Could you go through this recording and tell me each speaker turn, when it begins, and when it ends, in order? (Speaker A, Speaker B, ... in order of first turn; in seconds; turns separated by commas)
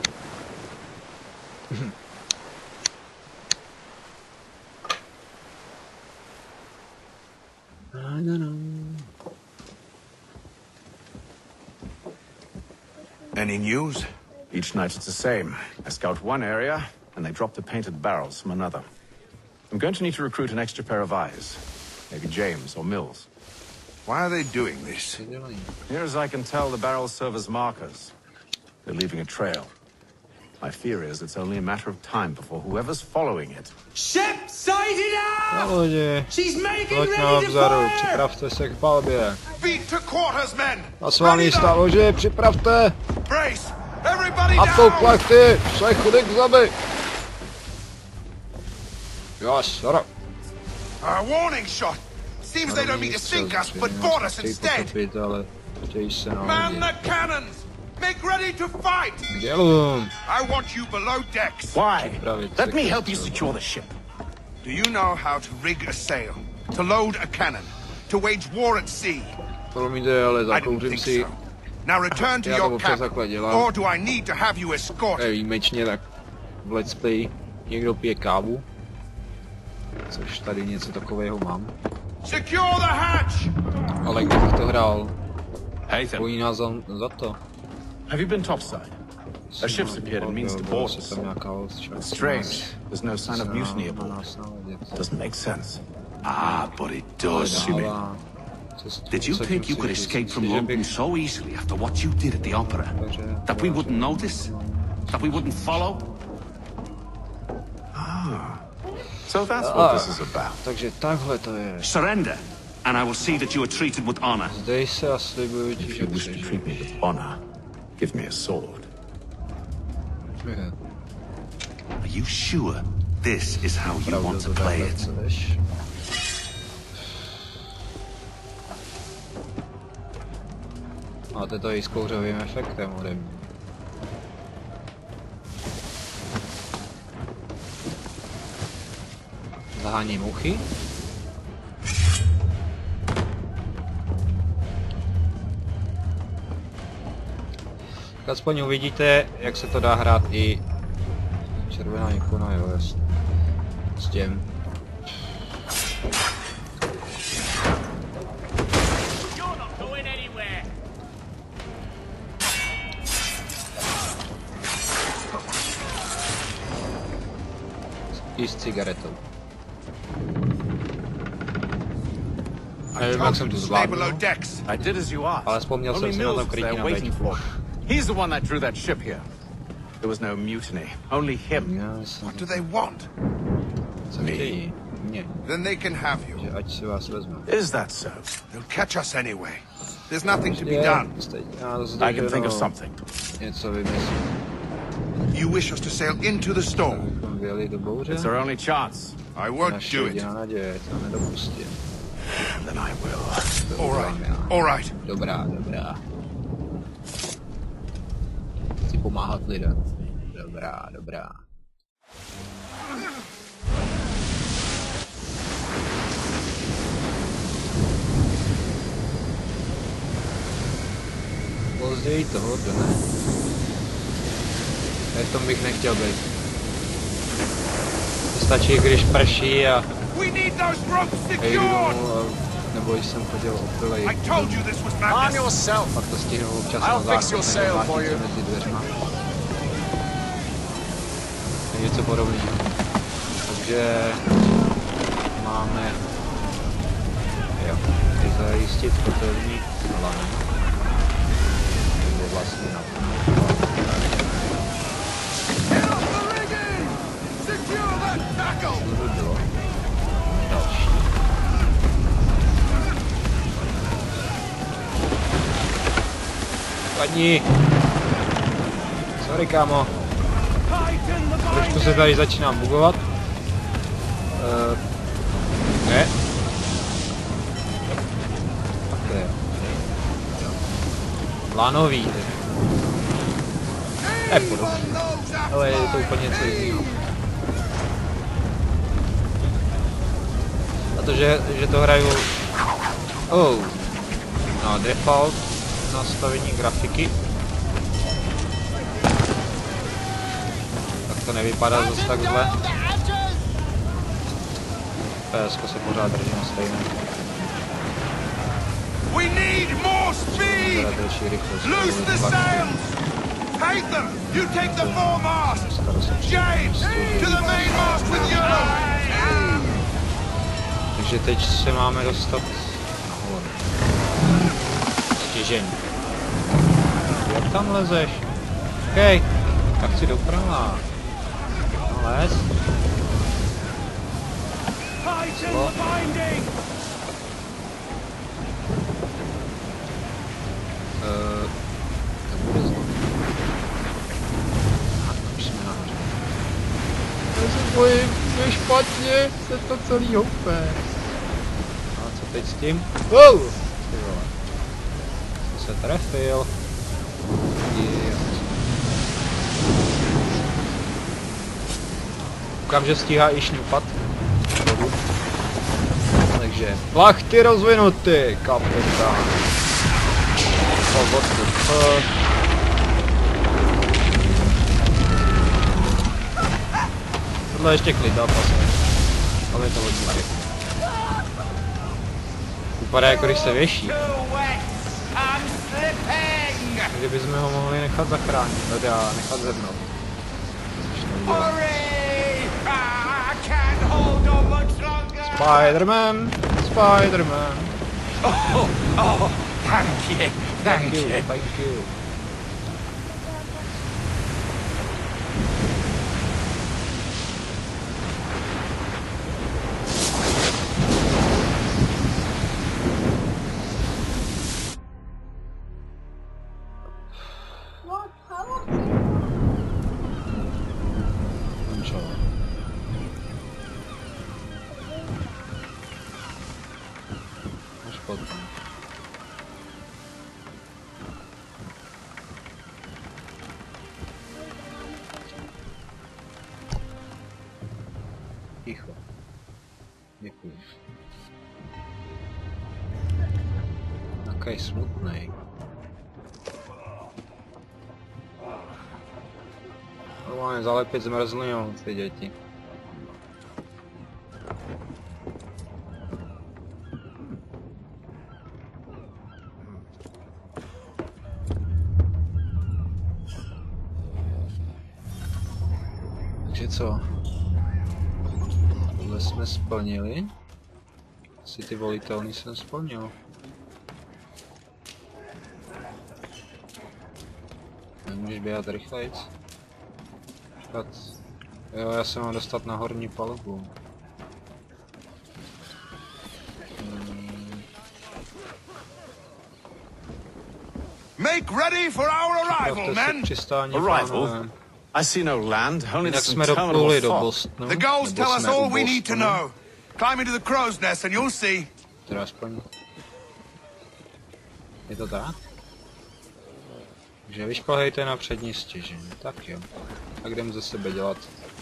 Speaker A: 7.9-9.1, Speaker B: 13.3-14.1, Speaker C: 14.5-18.8, Speaker C: 19.7-23.3, Speaker B: 24.1-25.2, Speaker A: 25.1-25.7, Speaker C: 25.9-28.1, Speaker C: 28.8-29.7, Speaker C: 30.6-33.7, Speaker D: 33.9-35.7, Speaker A: 35.5-39.4, Speaker D: 36.3-38.2, Speaker B: 39.6-41.8, Speaker A: 41.0-43.0, Speaker B: 43.2-45.2, Speaker A: 44.5-46.7, Speaker A: 49.4-50.1, Speaker B: 51.0-54.9, Speaker A: 52.6-56.9, Speaker B: 56.4-59.3, Speaker A: 59.3-60.1, Speaker B: 60.2-61.8, Speaker C: 61.7-63.9, Speaker A: 62.0-63.5, Speaker B: 64.6-69.3, Speaker A: 69.7-71.3, Speaker B: 70.5-75.3, Speaker A: 72.1-73.7, Speaker A: 75.2-76.0, Speaker A: 76.6-78.7, Speaker A: 80.1-81.7, Speaker B: 82.2-83.5, Speaker A: 84.0-85.1, Speaker C: 85.9-86.3, Speaker A: 86.2-87.4, Speaker C: 88.1-88.9, Speaker A: 89.5-95.0, Speaker C: 89.6-91.3, Speaker C: 91.9-94.2, Speaker C: 95.0-95.8, Speaker E: 96.2-97.9, Speaker A: 97.3-98.2, Speaker C: 97.4-97.9, Speaker A: 98.8-100.9, Speaker E: 99.1-103.0, Speaker A: 102.5-106.2, Speaker E: 103.5-104.5, Speaker E: 105.1-106.0, Speaker C: 107.9-108.6, Speaker C: 109.2-110.6, Speaker A: 109.6-111.9, Speaker E: 111.8-114.5, Speaker A: 114.5-117.0, Speaker C: 115.8-117.4, Speaker C: 118.0-118.9, Speaker A: 120.4-120.7, Speaker E: 122.0-125.0, Speaker A: 123.9-125.6, Speaker A: 131.3-133.5, Speaker A: 139.7-140.7, Speaker A: 148.2-150.6, Speaker A: 151.6-153.0, Speaker A: 154.0-154.5, Speaker A: 168.2-169.2, Speaker B: 172.9-174.7, Speaker A: 173.0-174.2, Speaker C: 174.7-179.2, Speaker A: 175.4-177.4, Speaker C: 180.0-181.8, Speaker A: 181.5-182.7, Speaker B: 182.2-183.1, Speaker A: 184.1-185.4, Speaker C: 184.2-184.6, Speaker B: 185.4-186.5, Speaker A: 186.3-187.5, Speaker C: 187.5-188.3, Speaker B: 188.5-191.1, Speaker A: 190.5-192.7, Speaker C: 192.0-193.0, Speaker A: 193.4-194.3, Speaker B: 195.3-197.1, Speaker A: 196.8-198.3, Speaker C: 198.1-199.2, Speaker B: 199.3-200.3, Speaker A: 199.6-201.8, Speaker C: 202.3-203.5, Speaker A: 203.7-206.0, Speaker B: 203.8-204.9, Speaker A: 208.8-211.4, Speaker A: 221.8-223.0, Speaker A: 225.1-226.2, Speaker A: 228.3-229.9, Speaker B: 230.1-232.0, Speaker A: 231.4-234.7, Speaker B: 234.0-235.5, Speaker C: 235.1-236.0, Speaker A: 235.9-239.0, Speaker C: 236.8-238.3, Speaker A: 241.7-242.8, Speaker A: 243.4-244.2, Speaker A: 245.3-246.0, Speaker A: 247.6-250.5, Speaker A: 252.0-254.0, Speaker B: 255.7-258.8, Speaker A: 258.8-259.5, Speaker A: 260.3-261.1, Speaker A: 266.9-267.4, Speaker A: 269.2-269.9, Speaker A: 271.5-273.0, Speaker A: 274.4-274.8, Speaker A: 275.8-276.1, Speaker A: 278.9-280.6, Speaker A: 281.5-282.4, Speaker B: 284.0-286.2, Speaker A: 284.2-286.9, Speaker A: 290.9-292.3, Speaker A: 293.3-293.8, Speaker A: 294.6-297.1, Speaker A: 301.1-302.6, Speaker A: 305.3-306.9, Speaker B: 309.1-310.9, Speaker A: 310.3-312.8, Speaker B: 311.6-313.0, Speaker B: 313.6-319.8, Speaker A: 314.2-318.6, Speaker A: 320.9-323.7, Speaker A: 325.1-325.8, Speaker A: 327.2-328.3, Speaker A: 328.9-330.9, Speaker A: 331.9-332.5, Speaker A: 335.2-335.8, Speaker A: 341.0-341.5, Speaker A: 342.3-343.0, Speaker A: 345.0-346.2, Speaker A: 347.3-350.8, Speaker A: 351.9-354.3, Speaker A: 355.4-356.5, Speaker A: 357.6-358.6, Speaker A: 362.6-365.0, Speaker A: 366.3-369.5, Speaker A: 370.9-372.1, Speaker A: 377.5-378.8, Speaker A: 379.5-380.5, Speaker A: 382.8-384.0, Speaker E: 383.0-386.9, Speaker A: 386.9-389.9, Speaker A: 390.8-391.6, Speaker E: 391.2-395.8, Speaker A: 395.2-397.7, Speaker E: 398.2-401.9, Speaker A: 400.6-401.8, Speaker A: 421.6-422.2, Speaker A: 427.8-428.5, Speaker A: 438.6-439.0, Speaker A: 440.2-440.7, Speaker A: 444.2-445.4, Speaker A: 450.2-452.3, Speaker A: 466.4-467.1, Speaker A: 468.9-470.3, Speaker A: 471.4-473.1, Speaker A: 478.1-479.3, Speaker A: 480.6-481.1, Speaker A: 481.7-483.7, Speaker A: 486.8-487.6, Speaker B: 491.2-493.3, Speaker A: 492.4-494.5, Speaker C: 493.7-494.4, Speaker C: 494.9-497.3, Speaker A: 496.0-499.4, Speaker B: 497.6-501.7, Speaker A: 502.1-502.6, Speaker A: 504.9-505.4, Speaker A: 507.2-509.7, Speaker A: 510.2-511.3